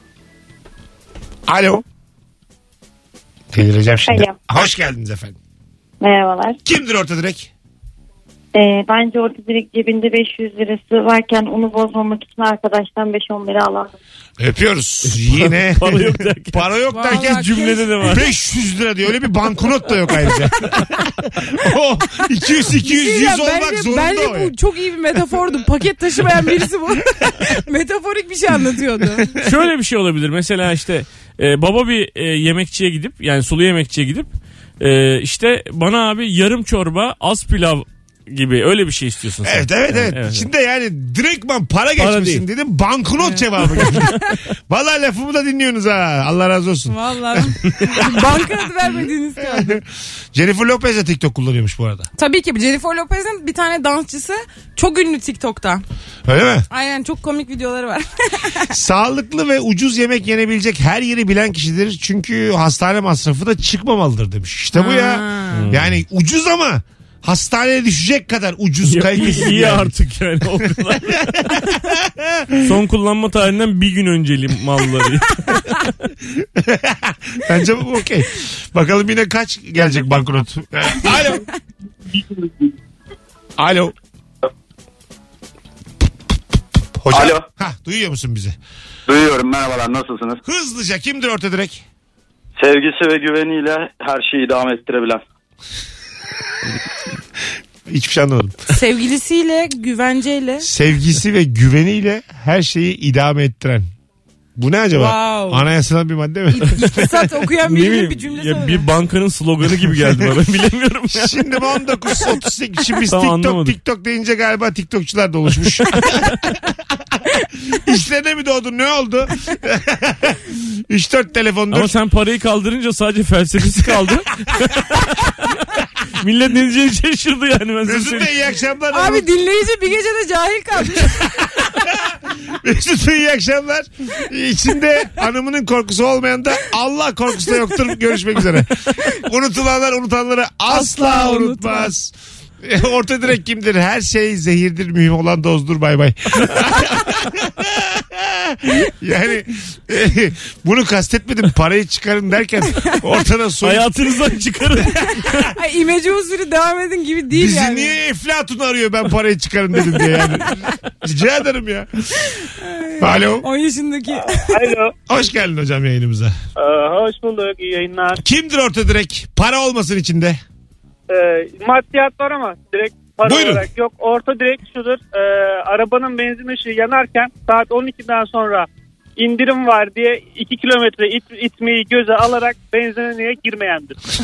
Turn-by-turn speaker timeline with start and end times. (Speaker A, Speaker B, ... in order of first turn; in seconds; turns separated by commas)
Speaker A: 1.5-1.8, Speaker A: 3.5-5.4, Speaker B: 4.1-4.3, Speaker B: 6.0-6.6, Speaker A: 6.6-7.5, Speaker B: 8.5-13.9, Speaker A: 14.4-24.5, Speaker C: 15.1-18.2, Speaker D: 16.9-18.1, Speaker D: 22.7-29.3, Speaker A: 29.1-29.5, Speaker C: 29.4-34.3, Speaker C: 34.8-40.5, Speaker A: 39.4-44.1, Speaker C: 42.0-42.4, Speaker D: 43.2-44.1, Speaker C: 43.8-44.1, Speaker A: 44.7-48.0, Speaker D: 46.9-49.8, Speaker A: 49.4-52.1, Speaker D: 52.1-55.8, Speaker A: 56.2-56.6, Speaker D: 56.7-58.7, Speaker A: 58.7-69.9, Speaker D: 64.7-65.7, Speaker C: 65.5-66.0, Speaker C: 68.9-71.8, Speaker A: 70.5-72.6, Speaker C: 72.6-75.9, Speaker A: 76.4-81.5, Speaker A: 83.6-83.9, Speaker A: 87.0-88.5, Speaker E: 87.1-87.4, Speaker E: 89.1-90.4, Speaker A: 90.4-91.8, Speaker E: 92.6-95.2, Speaker A: 97.9-98.6, Speaker D: 98.7-100.7, Speaker A: 100.6-103.9, Speaker A: 104.6-106.9, Speaker D: 104.9-105.7, Speaker D: 106.5-108.8, Speaker C: 107.6-111.4, Speaker A: 110.0-110.3, Speaker A: 111.1-116.6, Speaker C: 113.1-113.8, Speaker A: 117.7-121.9, Speaker C: 121.7-125.5, Speaker C: 126.1-128.3, Speaker A: 127.8-129.3, Speaker D: 128.9-131.5, Speaker A: 131.1-153.9, Speaker D: 140.7-141.9, Speaker C: 153.6-155.5, Speaker D: 155.3-157.9, Speaker A: 157.3-162.3, Speaker D: 162.6-164.7, Speaker A: 163.0-163.5, Speaker F: 164.4-164.9, Speaker A: 165.1-166.3, Speaker F: 166.6-168.2, Speaker A: 168.2-170.4, Speaker F: 171.1-184.0, Speaker A: 173.2-173.7